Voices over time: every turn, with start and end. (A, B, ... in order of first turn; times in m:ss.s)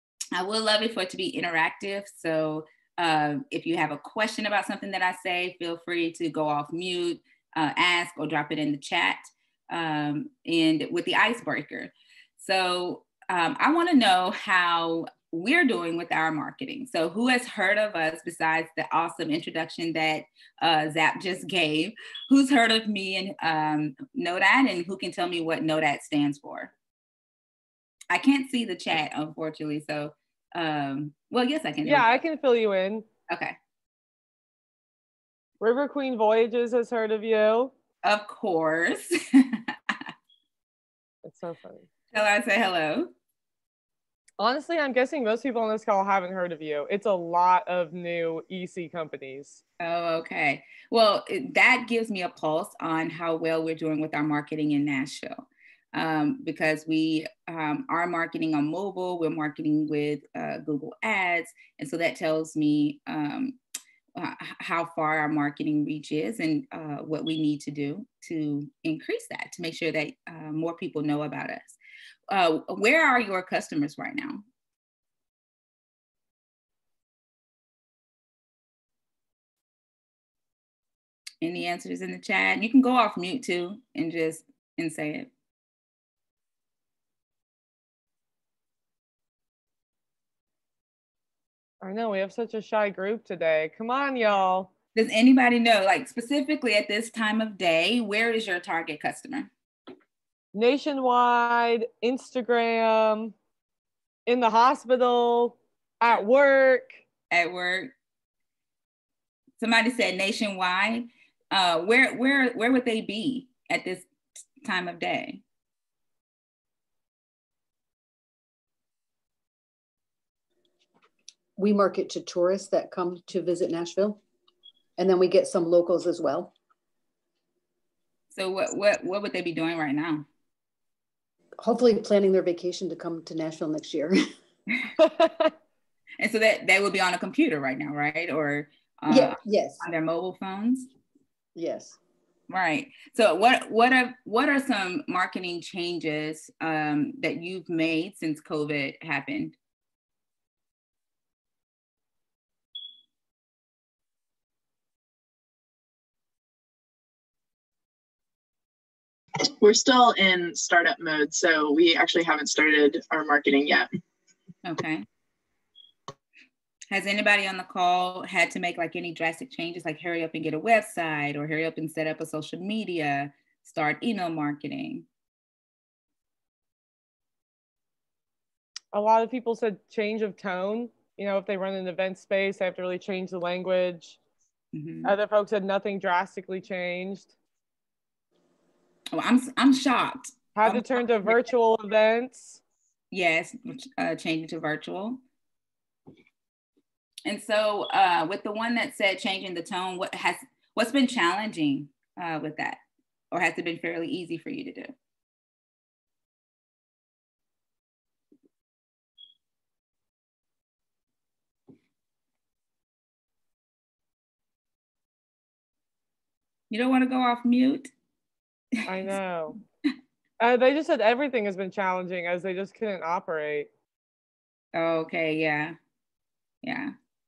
0:00.3-0:26.7 A
0:28.1-0:32.2 A
0:31.8-0:33.0 B
0:33.3-0:33.5 A
0:35.6-0:37.7 B
0:38.0-0:40.1 A
0:41.2-0:41.8 B
0:42.1-0:43.1 A
0:44.4-0:49.6 B
0:49.8-1:03.6 A
1:04.1-1:11.8 A
1:12.3-1:14.4 A
1:21.4-1:25.3 A
1:31.8-1:34.7 B
1:34.9-1:39.5 A
1:40.5-1:43.3 B
1:44.3-1:47.0 B
1:47.3-1:47.9 A
1:49.6-1:54.1 A
1:54.6-1:55.4 A
2:01.6-2:04.2 C
2:05.0-2:06.5 C
2:08.3-2:10.2 A
2:11.6-2:14.2 C
2:15.0-2:15.5 B
2:16.2-2:20.9 A
2:19.1-2:19.8 C
2:21.6-2:22.0 C
2:22.5-2:29.5 A
2:39.6-2:43.9 D
2:44.6-2:45.0 A
2:46.9-2:55.0 A
2:58.9-3:04.2 B
3:04.7-3:05.1 A
3:05.0-3:07.3 B
3:09.1-3:11.4 A
3:10.6-3:12.6 B
3:13.1-3:15.2 A
3:17.2-3:22.8 A
3:23.3-3:24.9 A
3:36.7-3:37.9 A
3:38.8-3:39.6 B
3:40.4-3:43.7 B
3:44.7-3:45.8 A
3:46.6-3:46.9 A